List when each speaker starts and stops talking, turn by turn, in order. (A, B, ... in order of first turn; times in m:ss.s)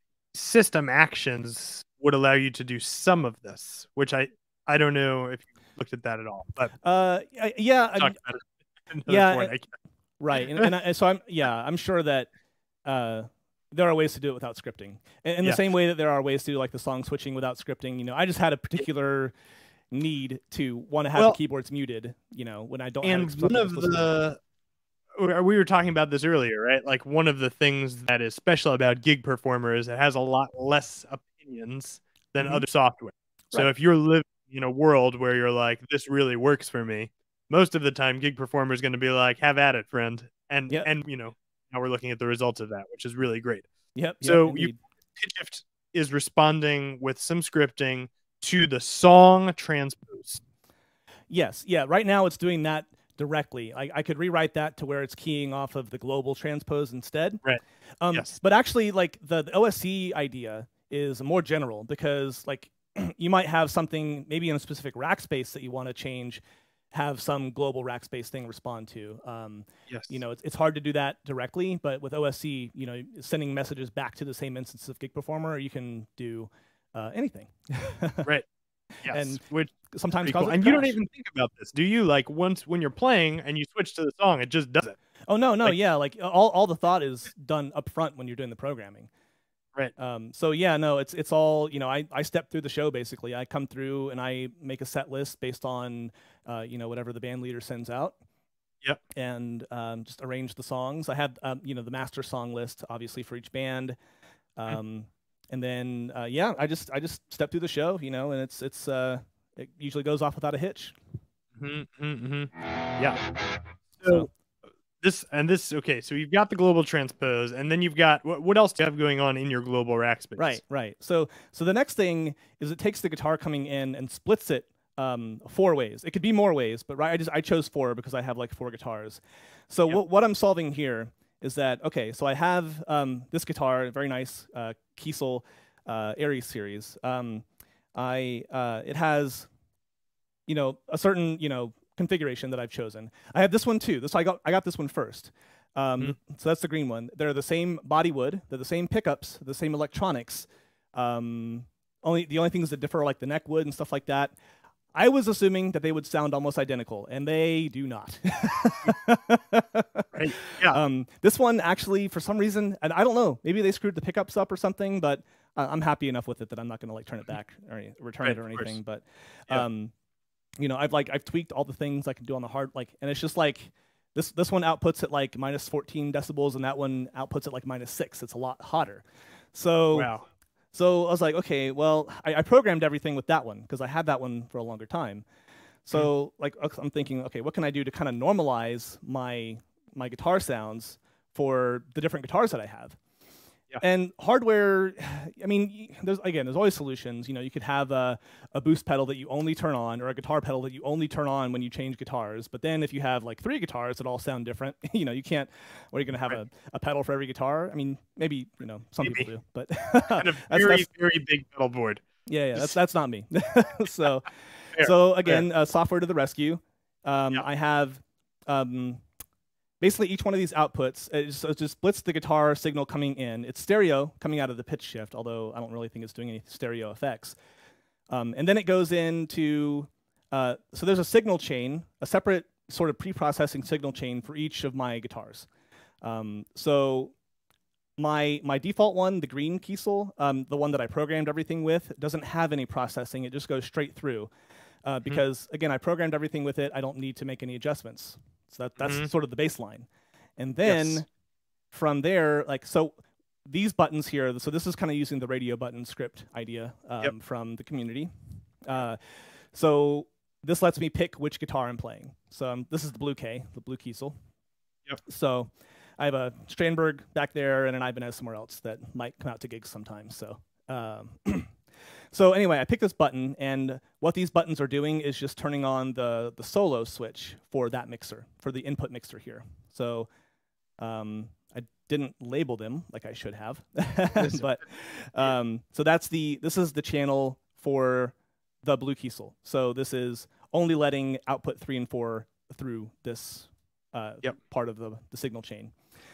0:00.3-0:06.7 A
0:06.8-0:08.2 B
0:08.0-0:09.7 A
0:09.0-0:09.5 B
0:10.2-0:12.3 B
0:12.8-0:19.3 B
0:19.9-0:24.1 B
0:23.0-0:24.4 A
0:25.2-0:43.7 A
0:43.9-0:44.8 B
0:44.2-0:50.4 A
0:51.3-0:57.4 B
0:58.0-1:06.4 B
1:06.9-1:18.3 B
1:09.9-1:10.2 A
1:19.0-1:25.0 A
1:19.1-1:21.0 B
1:25.3-1:29.1 B
1:30.0-1:38.2 B
1:39.1-1:44.0 B
1:44.6-1:51.0 B
1:51.6-1:53.2 A
1:54.0-1:54.3 A
1:54.0-1:54.3 B
1:55.0-2:00.6 A
2:00.4-2:19.5 B
2:20.5-2:34.3 B
2:34.9-2:49.9 B
2:40.1-2:40.8 A
2:48.2-2:48.8 A
2:50.6-3:00.1 B
2:59.9-3:00.2 A
3:00.7-3:05.2 B
3:05.8-3:13.0 B
3:13.8-3:30.9 B
3:29.0-3:29.3 A
3:30.1-3:32.0 A
3:32.2-3:39.0 B
3:34.7-3:35.4 A
3:39.8-3:47.4 B
3:48.1-3:55.5 B
3:56.0-3:57.1 B
3:58.0-4:04.3 B
4:04.8-4:11.1 B
4:08.8-4:09.1 A
4:10.6-4:11.0 A
4:11.7-4:18.1 B
4:18.6-4:19.0 B
4:19.5-4:24.2 B
4:25.0-4:31.6 B
4:32.1-4:40.1 B
4:40.8-4:55.7 B
4:44.2-4:44.5 A